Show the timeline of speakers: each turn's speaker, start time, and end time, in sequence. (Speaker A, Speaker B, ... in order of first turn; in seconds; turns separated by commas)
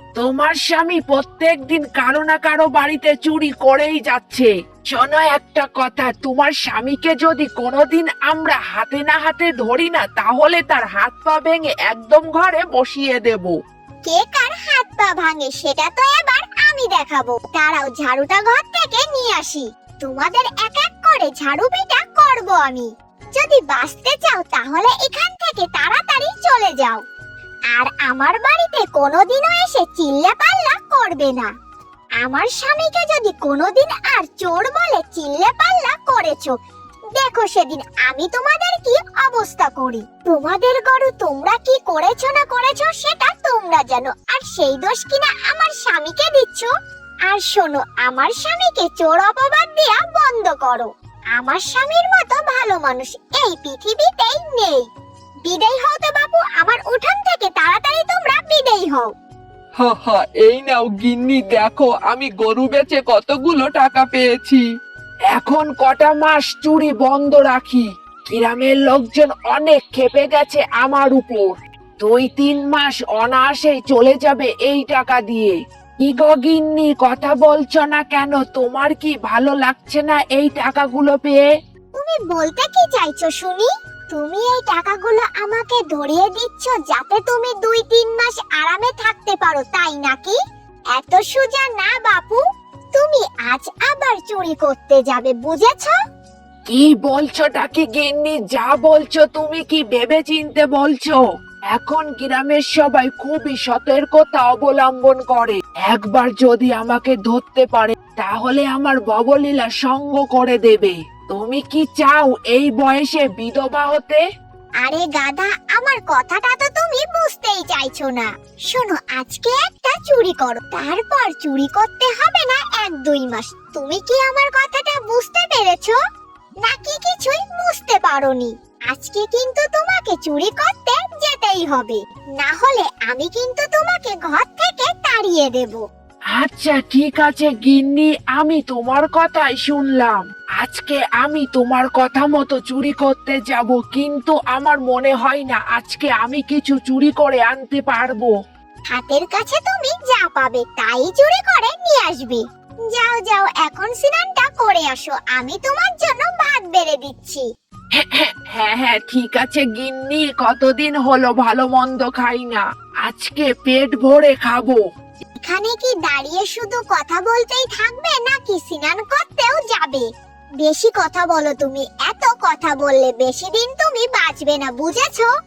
Speaker A: 0.2-13.6, Speaker B: 14.1-27.0, Speaker B: 27.7-31.5, Speaker B: 32.2-36.6, Speaker B: 37.1-46.7, Speaker B: 47.3-54.9, Speaker B: 55.5-59.1, Speaker C: 59.8-64.6, Speaker A: 65.3-81.4, Speaker B: 82.0-90.4, Speaker B: 90.9-92.4, Speaker B: 92.9-96.0, Speaker A: 96.7-114.2, Speaker B: 114.8-126.0, Speaker B: 126.6-135.8, Speaker A: 136.3-148.3, Speaker B: 148.9-157.5, Speaker A: 157.9-164.8, Speaker B: 165.4-170.1, Speaker B: 170.6-175.3